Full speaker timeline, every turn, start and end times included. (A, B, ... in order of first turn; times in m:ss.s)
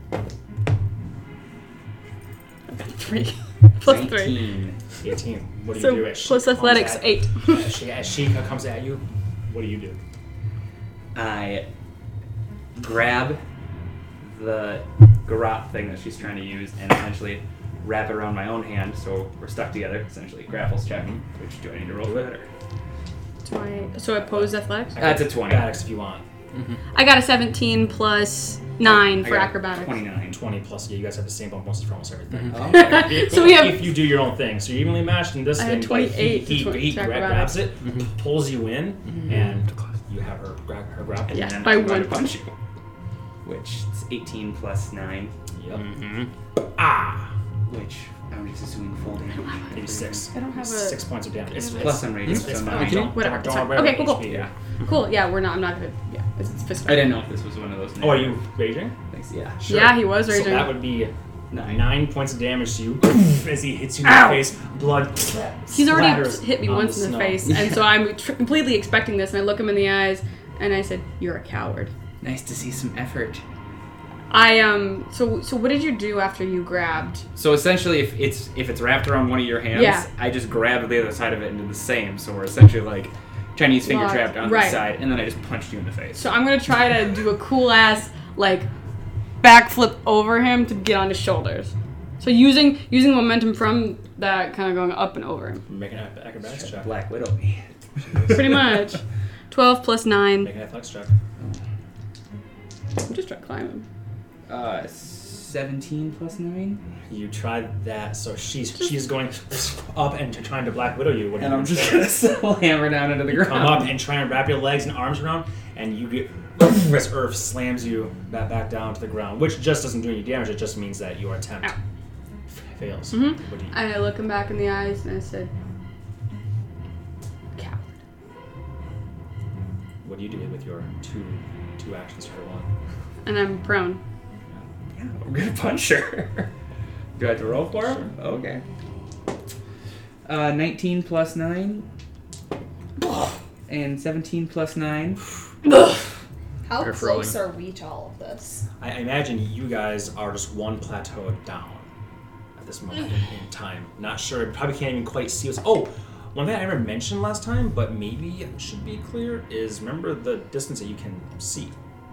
0:02.7-0:04.4 A
0:03.8-0:04.8 B
0:05.0-0:10.0 C
0:05.7-0:07.6 A
0:11.1-0:11.6 B
0:12.8-0:13.4 B
0:14.2-0:22.5 B
0:22.0-0:22.4 C
0:23.4-0:25.0 A
0:24.2-0:26.2 C
0:25.0-0:25.8 B
0:26.9-0:30.0 A
0:28.8-0:30.4 B
0:30.3-0:42.4 C
0:32.5-0:33.5 B
0:32.7-0:34.0 A
0:35.6-0:37.7 A
0:41.3-0:42.4 A
0:41.4-0:42.5 B
0:43.4-0:45.3 B
0:45.5-0:45.9 C
0:45.8-0:46.3 D
0:46.6-0:47.3 C
0:47.7-0:50.3 B
0:49.4-0:49.7 A
0:49.7-0:54.5 C
0:50.3-0:52.0 A
0:51.8-0:53.1 B
0:52.3-0:53.1 D
0:52.6-0:57.2 A
0:54.2-0:54.5 B
0:56.8-0:58.4 B
0:58.0-0:59.0 C
0:59.1-0:59.6 B
0:59.6-1:07.5 C
0:59.7-1:00.9 A
1:01.5-1:02.0 B
1:04.0-1:04.4 A
1:05.7-1:11.9 A
1:07.4-1:07.9 B
1:12.2-1:13.4 B
1:14.3-1:17.2 A
1:17.4-1:26.3 B
1:19.7-1:20.1 A
1:23.8-1:24.9 A
1:26.2-1:28.7 A
1:29.4-1:35.6 A
1:35.7-1:36.9 C
1:36.4-1:38.8 B
1:38.3-1:40.5 A
1:40.4-1:41.1 C
1:43.0-1:43.8 A
1:44.5-1:46.8 B
1:47.1-1:52.2 C
1:51.4-1:54.0 B
1:53.3-2:01.8 C
2:02.5-2:03.7 C
2:03.1-2:05.5 A
2:07.5-2:07.9 A
2:10.0-2:12.7 C
2:13.2-2:14.0 A
2:14.9-2:16.5 B
2:17.2-2:18.6 B
2:17.7-2:18.1 C
2:20.2-2:21.8 B
2:23.7-2:25.3 B
2:26.6-2:28.6 E
2:26.8-2:27.3 D
2:28.8-2:31.9 C
2:32.6-2:41.7 C